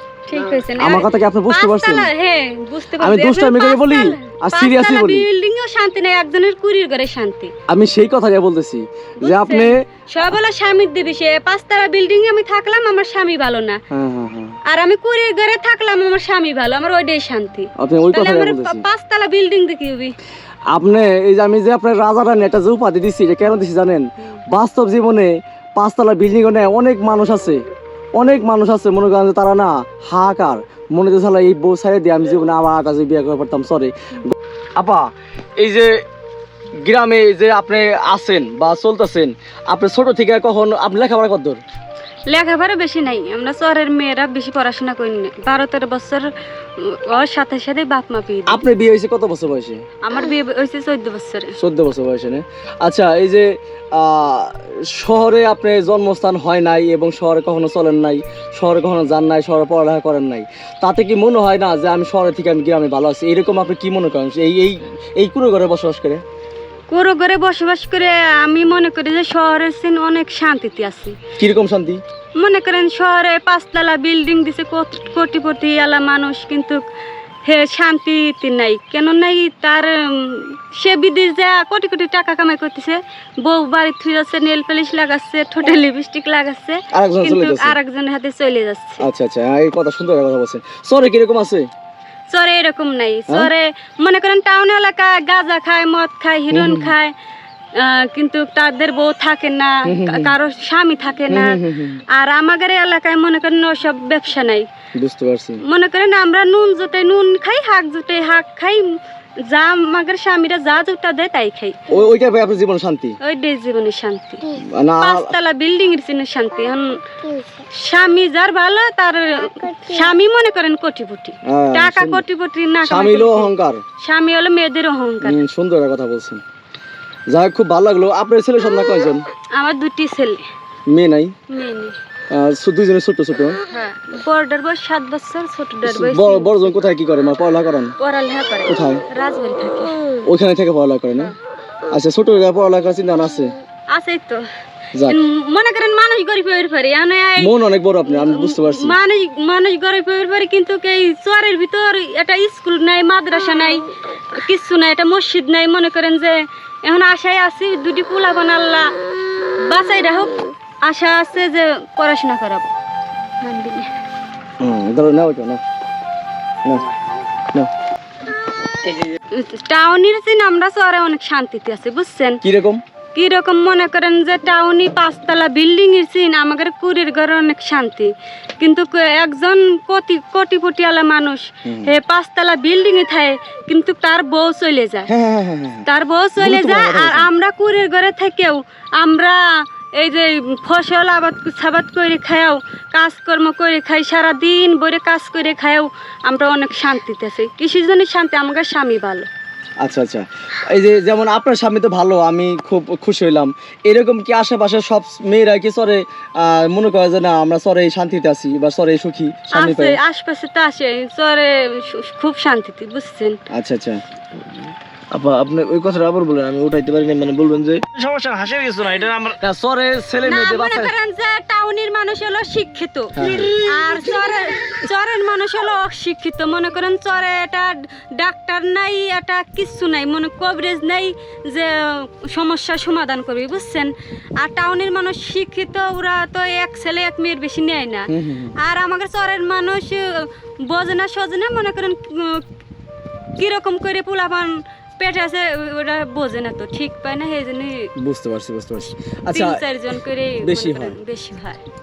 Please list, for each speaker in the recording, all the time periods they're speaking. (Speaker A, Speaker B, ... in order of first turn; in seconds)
Speaker A: 0.3-7.5, 9.2-13.8, 14.7-20.1, 42.3-48.6, 50.0-51.5, 66.9-71.2, 72.4-76.8, 77.5-89.0, 92.3-97.1, 97.8-101.6, 102.1-104.7, 105.6-112.0, 113.2-125.4, 129.5-130.4, 131.5-132.0, 133.7-136.5, 138.0-140.1, 143.9-144.4, 145.0-147.5, 148.1-158.9, 159.6-162.7, 163.4-163.9, 169.3-172.4, 173.2-185.1, 185.8-199.3, 209.5-213.4, 220.2-242.5, 243.4-247.9, 248.8-251.6
Speaker B: 0.8-2.1, 3.0-5.3, 7.7-9.8, 13.9-14.6, 17.8-18.9, 20.7-27.6, 28.2-36.0, 36.9-41.6, 48.5-49.8, 51.6-66.2, 71.4-72.0, 86.9-87.8, 89.0-91.7, 96.5-97.0, 99.9-100.3, 101.3-102.0, 105.0-105.6, 111.9-113.2, 114.6-115.4, 121.5-122.2, 122.8-123.8, 125.2-126.4, 127.3-129.2, 130.9-131.4, 132.3-133.6, 135.8-137.9, 138.7-139.0, 140.2-141.3, 141.9-143.6, 144.9-145.2, 147.4-149.0, 164.6-165.6, 166.6-166.9, 172.4-172.8, 181.7-181.9, 185.1-185.9, 186.4-187.3, 199.8-210.0, 213.5-214.0, 219.4-220.9, 223.2-223.8, 238.1-238.5, 248.0-249.6, 250.4-251.0
Speaker C: 215.1-219.4